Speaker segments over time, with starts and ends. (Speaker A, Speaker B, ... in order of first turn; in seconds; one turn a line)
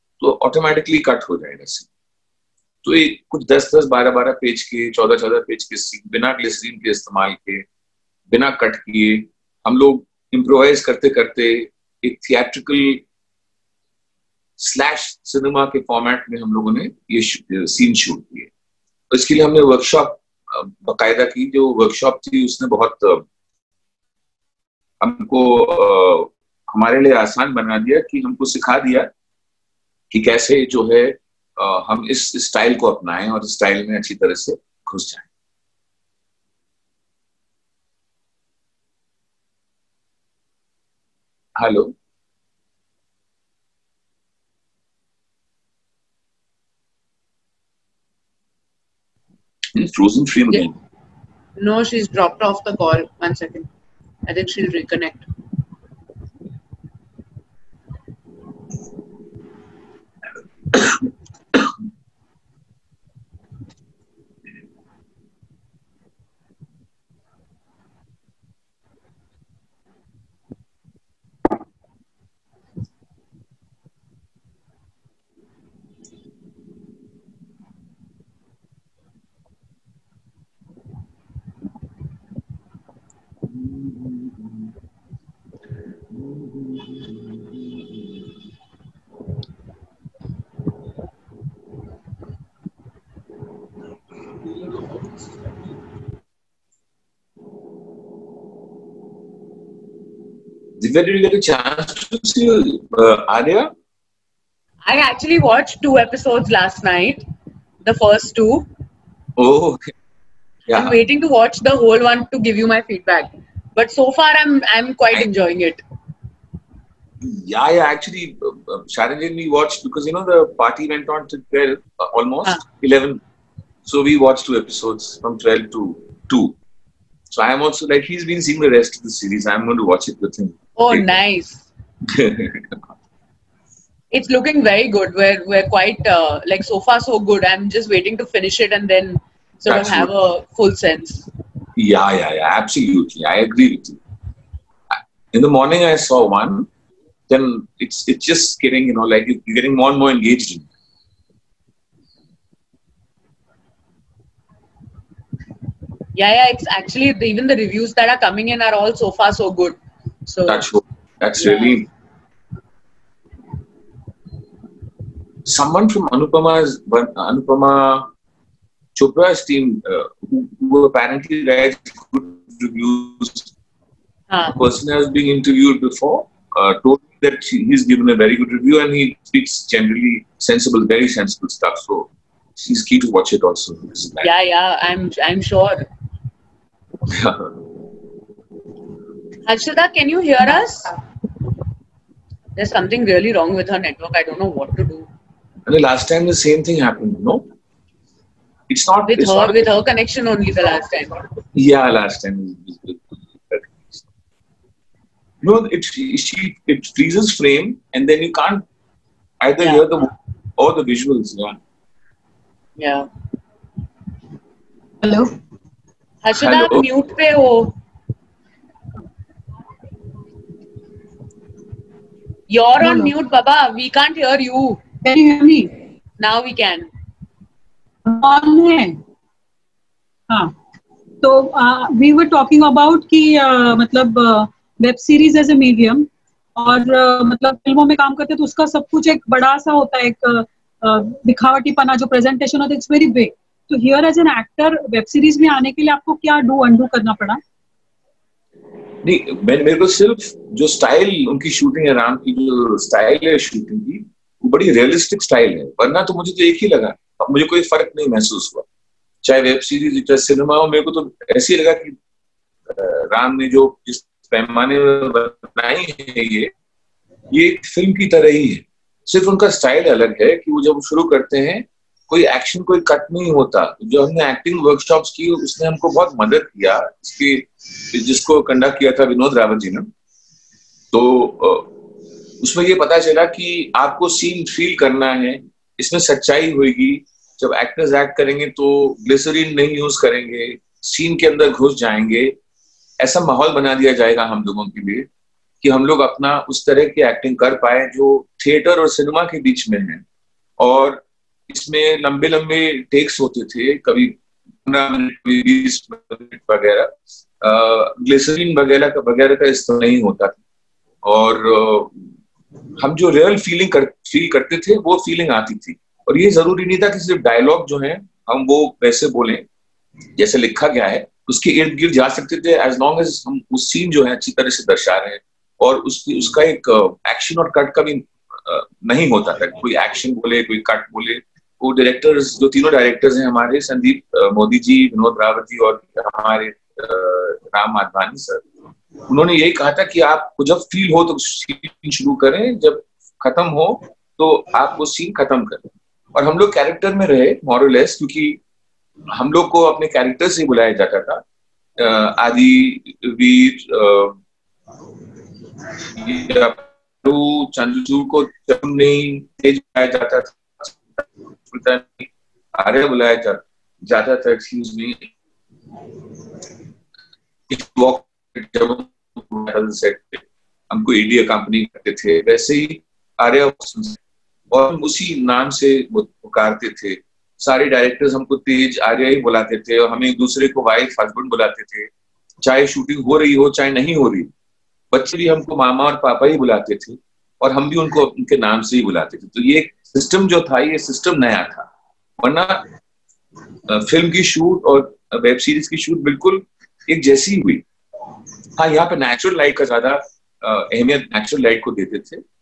Speaker A: 0.2-1.9
Speaker A: 2.8-7.7
Speaker A: 8.3-13.1
Speaker A: 14.6-18.5
Speaker A: 19.1-23.3
Speaker A: 25.0-29.1
Speaker A: 30.1-35.3
Speaker A: 41.6-41.9
Speaker A: 49.7-50.8
Speaker B: 51.6-53.7
Speaker B: 54.3-55.3
Speaker A: 83.5-84.7
Speaker A: 86.2-87.5
Speaker A: 100.8-103.7
Speaker B: 104.8-107.2
Speaker B: 107.8-108.7
Speaker A: 109.4-109.9
Speaker A: 110.7-111.0
Speaker B: 110.7-115.8
Speaker A: 117.2-123.2
Speaker A: 123.9-126.6
Speaker A: 127.3-131.1
Speaker B: 130.8-131.6
Speaker A: 132.1-132.8
Speaker B: 134.1-141.3
Speaker A: 139.7-140.1
Speaker A: 141.8-144.0
Speaker A: 145.3-146.7
Speaker A: 147.3-150.7
Speaker B: 156.1-160.7
Speaker A: 160.5-161.9
Speaker B: 161.4-161.9
Speaker A: 165.4-168.1
Speaker A: 168.9-173.5
Speaker B: 174.3-174.6
Speaker A: 174.6-184.3
Speaker B: 184.2-185.9
Speaker A: 187.1-187.6
Speaker B: 189.4-191.0
Speaker B: 192.6-195.1
Speaker A: 195.7-197.5
Speaker A: 198.7-199.6
Speaker B: 199.1-201.3
Speaker A: 201.5-204.1
Speaker A: 205.4-208.7
Speaker A: 209.4-211.6
Speaker B: 212.8-213.1
Speaker C: 215.0-215.3
Speaker B: 216.2-217.8
Speaker A: 216.4-216.9
Speaker B: 222.5-224.8
Speaker C: 222.8-223.1
Speaker C: 225.0-225.7
Speaker B: 226.2-226.9
Speaker C: 228.1-229.0
Speaker C: 230.3-230.6
Speaker C: 231.2-247.4
Speaker A: 249.0-258.7
Speaker A: 259.2-262.0
Speaker A: 262.7-266.5
Speaker A: 267.3-279.9
Speaker A: 280.9-281.7
Speaker A: 282.4-292.4
Speaker A: 293.0-295.1
Speaker A: 295.6-300.0
Speaker A: 300.6-310.4
Speaker A: 311.0-312.1
Speaker A: 312.8-319.4
Speaker A: 320.1-338.4
Speaker A: 339.1-348.4
Speaker A: 349.1-351.2
Speaker A: 351.8-354.2
Speaker A: 355.9-365.1
Speaker A: 367.5-374.0
Speaker A: 374.5-381.9
Speaker A: 382.4-384.3
Speaker A: 384.9-391.7
Speaker A: 392.2-392.6
Speaker A: 393.7-397.6
Speaker A: 398.6-402.2